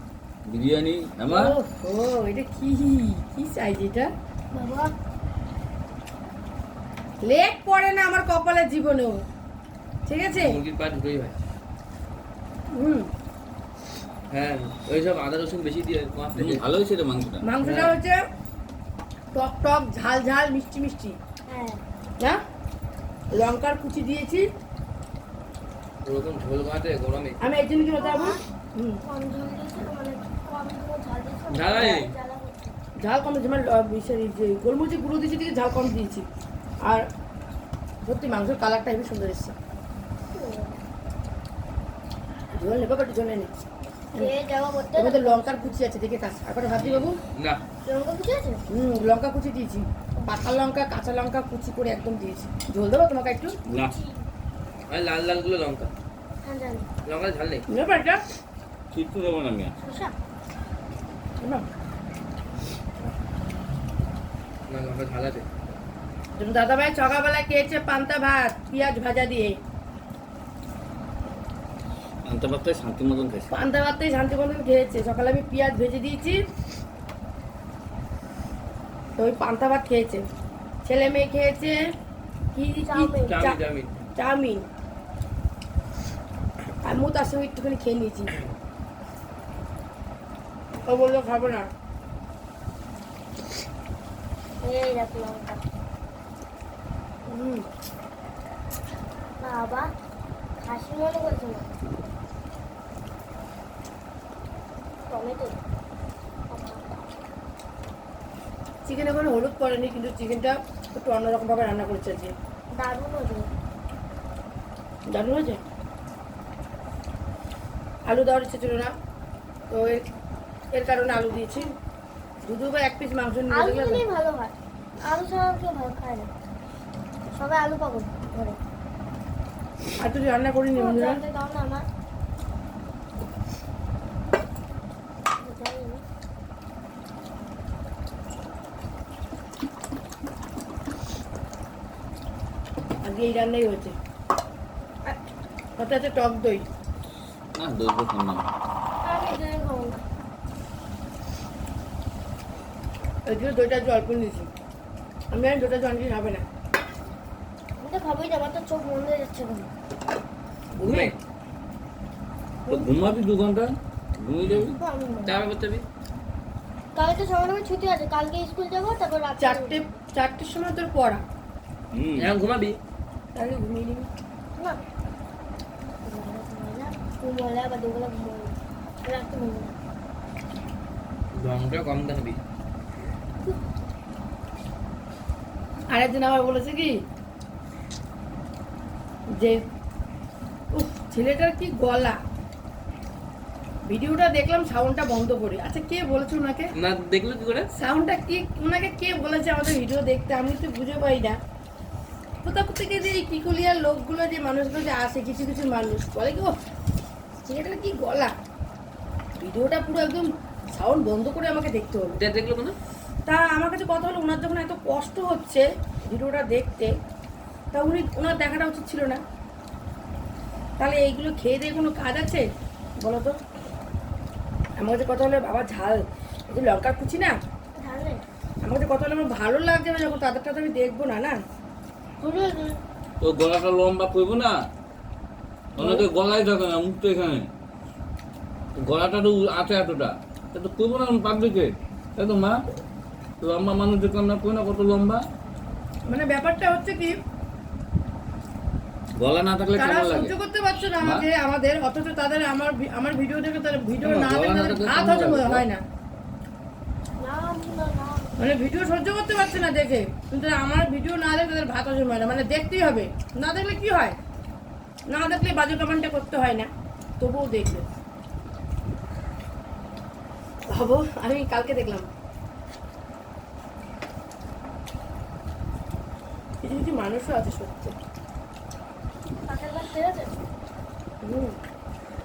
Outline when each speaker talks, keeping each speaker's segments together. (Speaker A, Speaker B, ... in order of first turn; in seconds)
Speaker A: 0.5-1.6, 16.3-17.5, 53.6-54.0, 58.9-59.8, 72.2-73.5, 147.5-148.4, 162.7-164.8, 171.9-172.3, 233.2-234.6, 235.8-237.5, 238.8-242.6, 243.4-245.2, 249.2-250.3, 251.0-251.3, 254.0-255.6
Speaker B: 1.3-4.1, 7.2-9.2, 10.1-10.6, 12.7-13.1, 17.4-18.2, 19.3-21.2, 23.3-24.4, 27.4-29.0, 33.0-36.2, 38.0-39.5, 42.5-43.5, 45.0-47.2, 48.7-53.5, 57.7-58.2, 61.4-61.6, 66.4-69.6, 73.5-76.4, 79.2-80.2, 80.8-81.8, 82.5-83.6, 84.2-84.6, 86.8-88.3, 90.8-91.7, 97.3-97.7, 108.8-112.3, 115.1-115.6, 118.1-118.9, 119.7-120.0, 120.7-121.7, 122.4-124.0, 130.0-131.2, 143.0-143.9, 145.8-146.6, 153.2-154.5, 155.3-156.4, 160.8-161.1, 169.4-171.2, 173.3-174.1, 185.9-186.9, 190.7-192.2, 193.8-196.7, 197.7-201.4, 202.4-206.5, 207.4-208.3, 209.4-212.2, 213.2-216.9, 217.7-219.2, 220.8-222.4, 223.0-223.4, 224.8-227.4, 228.6-231.4, 235.8-236.1, 246.1-247.1, 249.8-255.8, 258.4-264.1, 265.1-267.8, 270.7-272.1, 276.6-277.9, 281.2-281.6
Speaker C: 4.5-4.9, 21.5-21.8, 28.0-28.4, 29.0-32.8, 40.3-40.8, 44.1-45.7, 47.8-48.6, 53.9-54.2, 56.4-56.9, 59.8-60.1, 82.8-83.4, 94.6-95.6, 99.4-99.9, 100.6-101.7, 105.1-105.6, 106.5-106.8, 112.7-113.5, 123.5-126.3, 127.3-128.6, 130.7-131.8, 135.4-136.0, 149.0-150.0, 157.8-159.7, 162.7-162.9, 164.8-165.4, 166.9-169.9, 176.0-179.7, 227.7-228.2, 232.2-232.8, 257.2-258.3, 279.4-280.3
Speaker D: 10.3-11.3, 14.3-16.6, 17.6-18.0, 26.1-27.4, 31.5-32.1, 46.7-47.6, 54.9-55.9, 57.0-57.6, 64.7-65.5, 83.2-84.0, 160.8-161.2, 164.4-164.7, 165.2-165.8, 172.2-172.8, 181.3-182.4, 196.7-197.7, 212.2-212.8